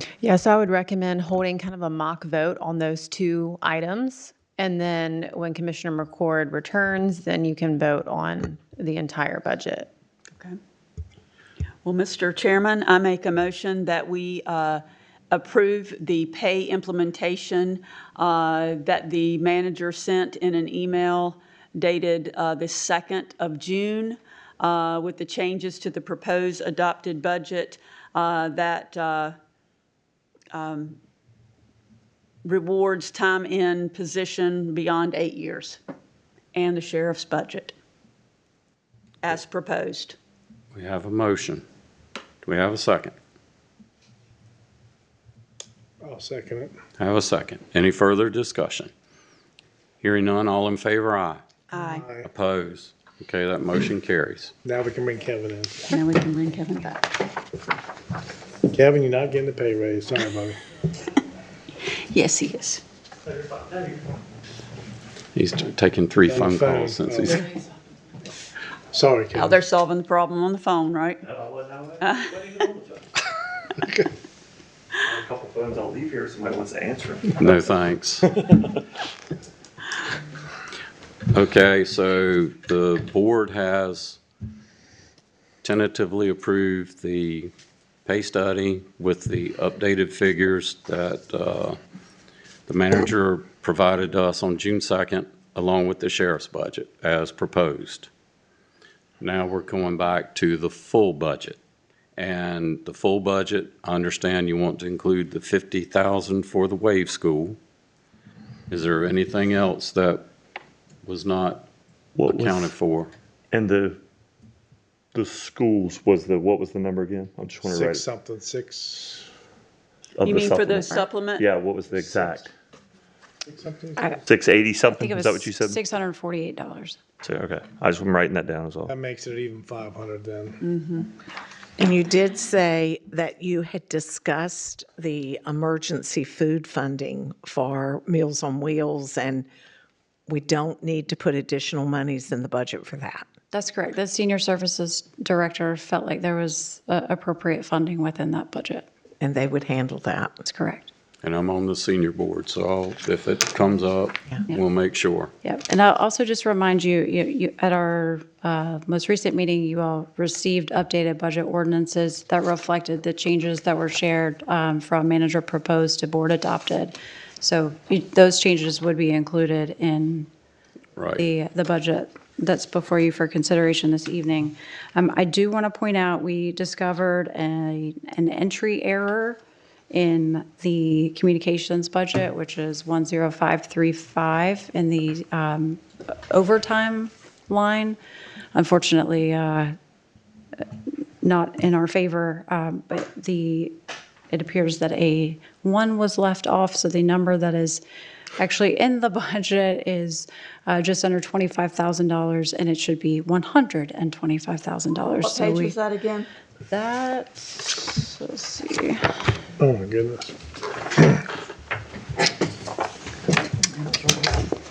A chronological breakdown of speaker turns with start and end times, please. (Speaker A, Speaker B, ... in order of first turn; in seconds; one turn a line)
Speaker A: 0.2-9.9
Speaker B: 11.8-29.3
Speaker B: 30.5-31.0
Speaker B: 32.4-35.8
Speaker B: 36.5-37.7
Speaker B: 39.2-40.2
Speaker C: 40.7-41.6
Speaker C: 42.4-43.1
Speaker D: 46.0-46.7
Speaker C: 47.0-48.9
Speaker C: 50.0-51.4
Speaker B: 51.7-52.0
Speaker D: 51.7-52.3
Speaker C: 52.3-54.5
Speaker D: 54.6-55.9
Speaker B: 55.9-57.0
Speaker D: 58.7-60.6
Speaker B: 62.1-62.8
Speaker E: 63.3-64.1
Speaker C: 65.3-67.5
Speaker D: 66.2-67.4
Speaker D: 68.9-69.6
Speaker B: 69.3-71.2
Speaker E: 71.2-73.1
Speaker B: 72.0-72.3
Speaker E: 75.0-77.6
Speaker C: 77.4-78.3
Speaker E: 78.4-78.7
Speaker C: 81.3-84.2
Speaker C: 85.6-87.5
Speaker C: 88.0-91.8
Speaker C: 92.7-98.1
Speaker C: 99.2-101.6
Speaker C: 102.2-107.6
Speaker C: 108.7-110.2
Speaker C: 111.0-111.7
Speaker E: 112.2-112.7
Speaker C: 112.2-113.1
Speaker E: 113.5-114.0
Speaker E: 115.1-118.0
Speaker D: 117.6-119.3
Speaker E: 120.2-122.5
Speaker B: 120.2-121.5
Speaker D: 122.1-122.4
Speaker D: 123.5-124.2
Speaker E: 124.2-125.8
Speaker F: 124.9-127.0
Speaker E: 127.2-128.9
Speaker D: 128.9-130.6
Speaker B: 130.6-131.1
Speaker G: 131.8-139.5
Speaker G: 140.3-143.3
Speaker F: 143.5-148.9
Speaker G: 149.2-150.4
Speaker F: 150.4-150.9
Speaker C: 151.2-155.3
Speaker F: 155.4-170.3
Speaker C: 170.9-171.2
Speaker F: 171.2-179.4
Speaker F: 179.9-188.0
Speaker F: 188.5-189.7
Speaker F: 191.2-193.8
Speaker F: 194.3-197.8
Speaker F: 198.4-205.8
Speaker B: 205.2-206.3
Speaker F: 206.7-209.0
Speaker D: 209.6-210.3